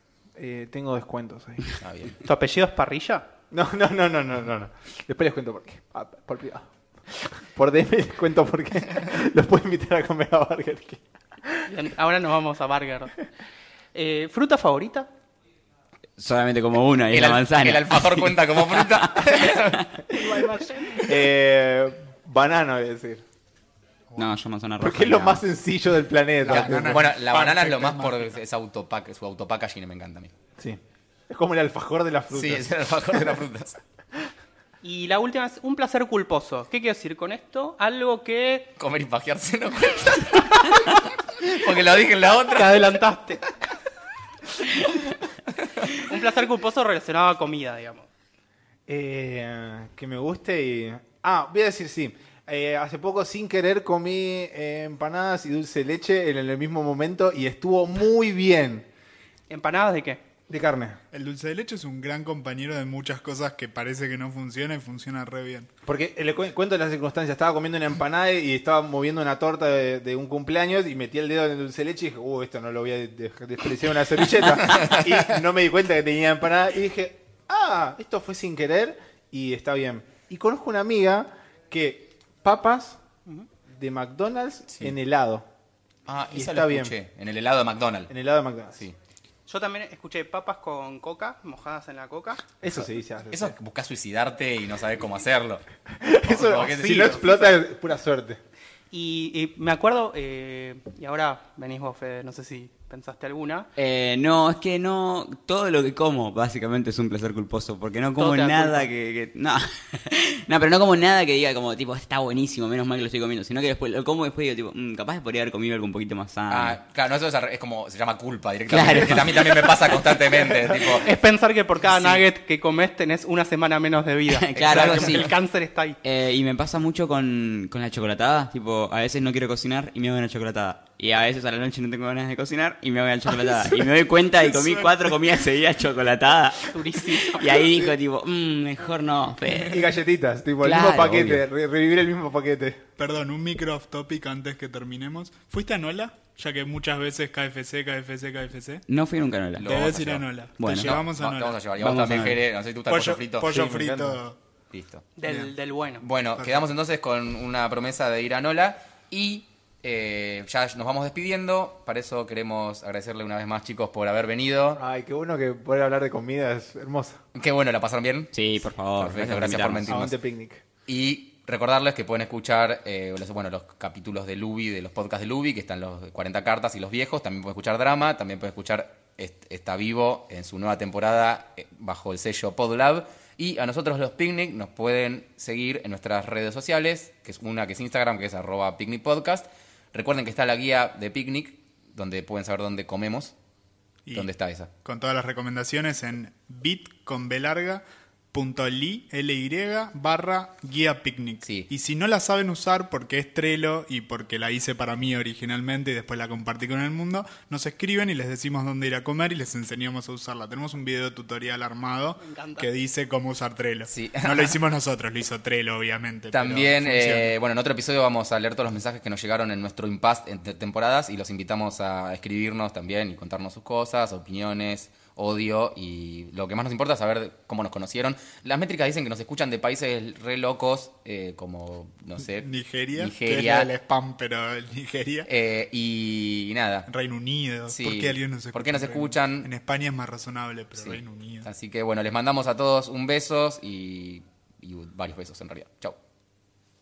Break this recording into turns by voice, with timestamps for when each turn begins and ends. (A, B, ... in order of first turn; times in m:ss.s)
0:00.4-0:01.6 A
0:01.8-0:02.2 B
0:02.2-0:03.3 C
0:03.5-0:11.7 A
0:11.7-0:13.2 C
0:13.9-0:15.1 C
0:16.2-0:19.9 D
0:17.1-0:19.9 B
0:20.1-0:21.1 C
0:20.9-0:23.2 A
0:24.2-0:25.4 D
0:24.8-0:27.1 A
0:26.4-0:28.3 E
0:26.5-0:30.3 B
0:30.6-0:33.4 A
0:32.3-0:33.8 B
0:34.8-0:38.7 C
0:38.8-0:42.9 B
0:42.5-0:43.4 C
0:46.0-0:48.1 C
0:48.9-0:58.9 A
0:59.5-1:00.2 C
1:00.5-1:01.0 A
1:01.1-1:05.7 E
1:05.8-1:23.0 A
1:14.6-1:15.3 B
1:23.7-1:25.4 A
1:26.1-1:28.1 B
1:26.3-1:26.9 A
1:28.1-1:28.9 A
1:29.4-1:32.4 C
1:32.6-1:33.6 A
1:33.3-1:35.6 B
1:35.9-1:38.4 A
1:36.2-1:37.4 B
1:36.5-1:37.5 C
1:38.9-1:43.7 C
1:43.8-1:56.8 D
1:48.2-1:48.9 C
1:56.5-2:01.1 B
1:58.7-2:00.7 D
2:00.7-2:06.0 C
2:01.8-2:02.2 B
2:04.3-2:05.3 D
2:04.6-2:05.3 B
2:06.0-2:19.9 D
2:13.6-2:13.9 E
2:14.4-2:15.1 E
2:16.7-2:17.5 C
2:19.7-2:22.8 A
2:20.6-2:21.4 D
2:23.0-2:28.8 E
2:28.9-2:29.7 D
2:29.6-2:33.6 B
2:29.6-2:31.6 E
2:30.6-2:31.0 D
2:31.8-2:32.4 D
2:32.9-2:34.4 E
2:33.5-2:34.2 A
2:34.7-2:35.1 B
2:35.2-2:36.0 C
2:35.3-2:35.5 E
2:36.0-2:44.8 B
2:36.4-2:36.6 E
2:44.7-2:47.2 A
2:47.3-2:48.3 B
2:48.3-2:50.0 D
2:49.0-2:50.1 B
2:49.9-2:50.6 A
2:50.9-3:13.3 B
3:14.1-3:14.7 B
3:14.8-3:37.3 E
3:21.4-3:21.7 B
3:32.2-3:32.7 C
3:33.9-3:34.5 B
3:36.3-3:53.7 B
3:52.4-3:55.3 E
3:55.3-3:56.9 B
3:56.9-4:01.5 E
3:57.7-3:59.5 B
4:00.8-4:06.0 B